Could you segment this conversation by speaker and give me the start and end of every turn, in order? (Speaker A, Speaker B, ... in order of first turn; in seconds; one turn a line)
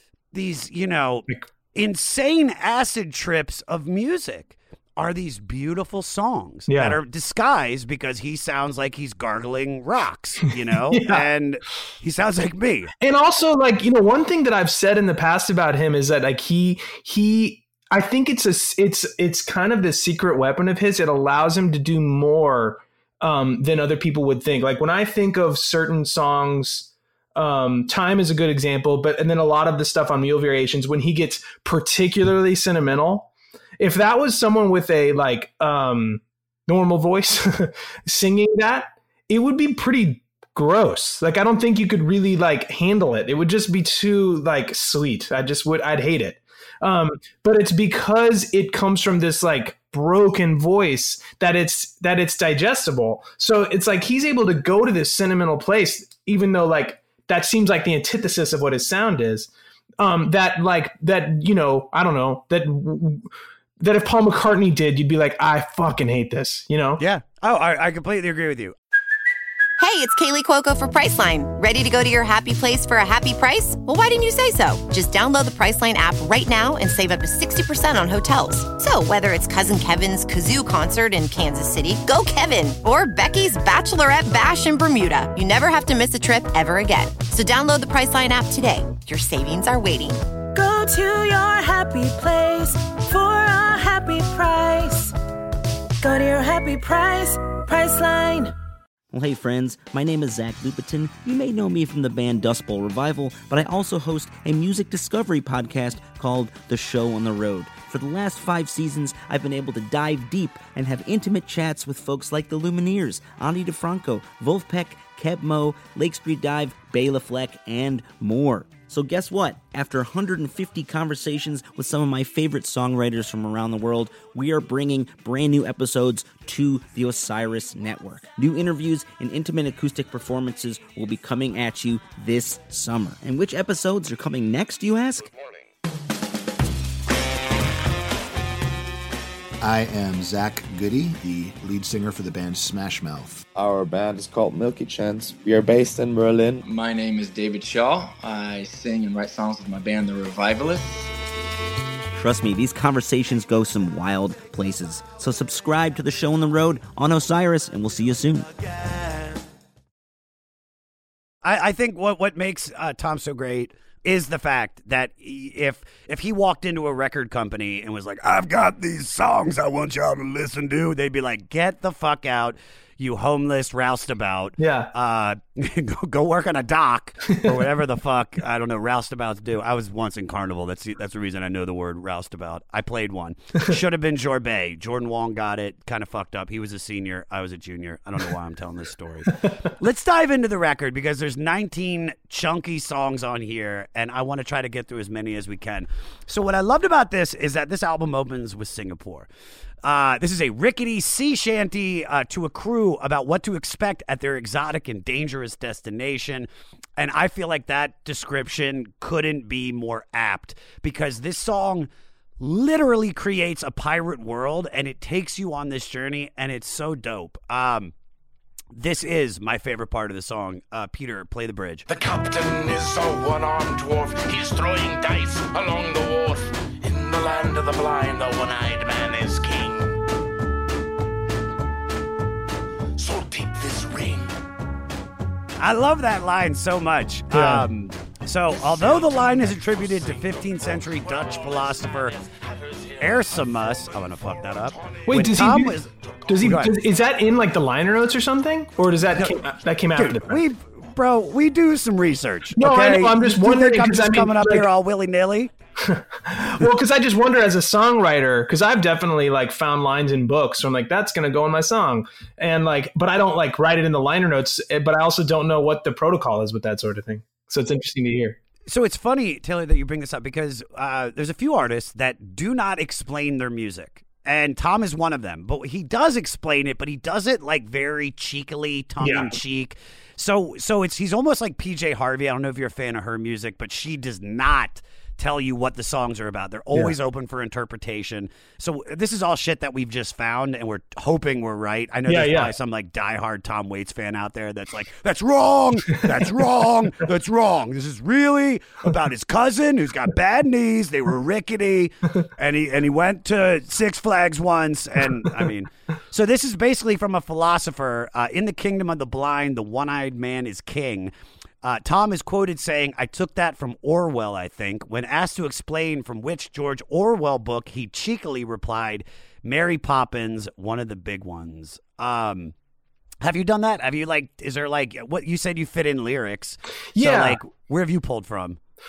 Speaker A: 0.3-12.9
Speaker B: 6.7-7.0
Speaker B: 10.9-11.2
Speaker B: 13.0-63.3
Speaker B: 63.8-67.0
Speaker A: 67.0-68.7
Speaker C: 69.8-90.2
Speaker D: 90.5-95.1
Speaker D: 96.0-98.5
Speaker E: 99.1-135.3
Speaker F: 139.6-143.4
Speaker G: 143.6-146.6
Speaker H: 146.6-151.1
Speaker E: 152.1-158.5
Speaker A: 161.4-199.3
Speaker B: 174.6-174.9
Speaker B: 177.3-177.6
Speaker A: 199.8-217.9
Speaker A: 218.7-221.9
Speaker I: 221.9-230.0
Speaker I: 233.0-234.3
Speaker A: 235.6-242.2
Speaker B: 237.3-237.7
Speaker I: 238.6-245.0
Speaker A: 243.0-246.8
Speaker B: 245.1-250.4
Speaker A: 249.9-255.5
Speaker B: 252.6-254.7
Speaker B: 255.8-268.4
Speaker A: 268.7-311.1
Speaker B: 279.0-279.3
Speaker B: 292.1-292.5
Speaker A: 311.6-322.5
Speaker A: 323.2-328.6
Speaker B: 326.9-327.4